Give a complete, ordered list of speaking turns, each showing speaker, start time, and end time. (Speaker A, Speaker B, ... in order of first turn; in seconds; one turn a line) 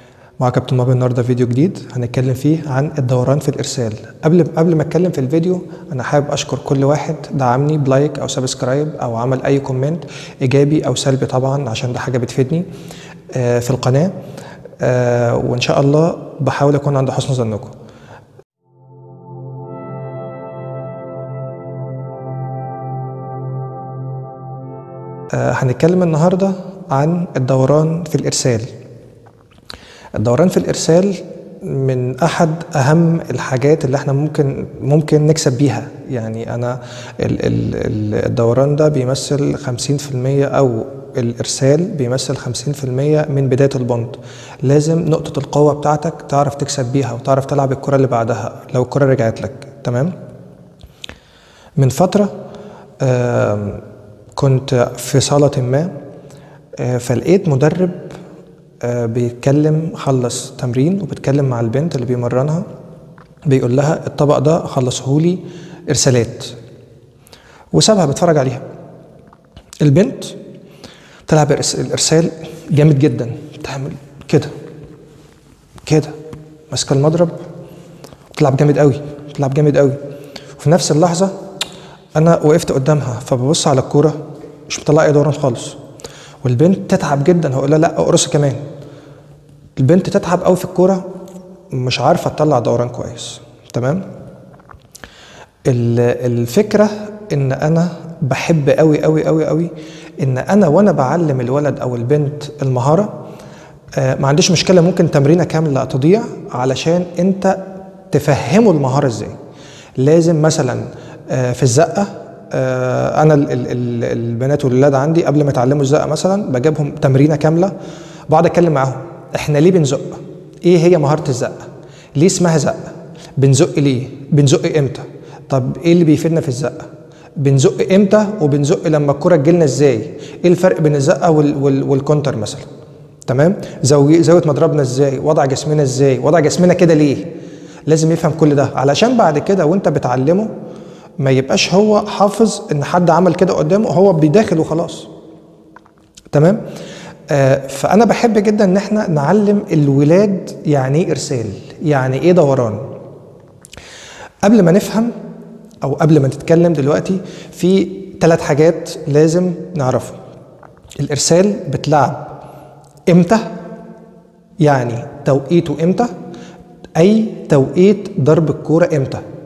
Speaker A: 0.4-12.7
Speaker A: 13.3-14.2
Speaker A: 14.8-17.7
Speaker A: 25.3-28.7
Speaker A: 30.2-50.1
Speaker A: 51.8-52.3
Speaker A: 53.0-53.8
Speaker A: 54.4-55.9
Speaker A: 56.8-58.2
Speaker A: 58.8-62.6
Speaker A: 63.5-66.5
Speaker A: 67.7-68.6
Speaker A: 69.8-70.4
Speaker A: 71.3-74.5
Speaker A: 75.8-76.2
Speaker A: 76.7-77.4
Speaker A: 78.3-80.0
Speaker A: 80.6-81.3
Speaker A: 82.2-85.8
Speaker A: 86.4-88.6
Speaker A: 89.8-91.0
Speaker A: 91.7-94.0
Speaker A: 95.7-103.2
Speaker A: 104.0-109.3
Speaker A: 110.0-117.7
Speaker A: 118.3-126.9
Speaker A: 127.4-132.7
Speaker A: 133.3-137.3
Speaker A: 137.9-140.5
Speaker A: 141.2-145.1
Speaker A: 146.3-146.6
Speaker A: 147.3-152.8
Speaker A: 154.4-155.1
Speaker A: 155.8-160.2
Speaker A: 161.0-162.4
Speaker A: 163.1-163.5
Speaker A: 164.6-166.1
Speaker A: 166.9-169.2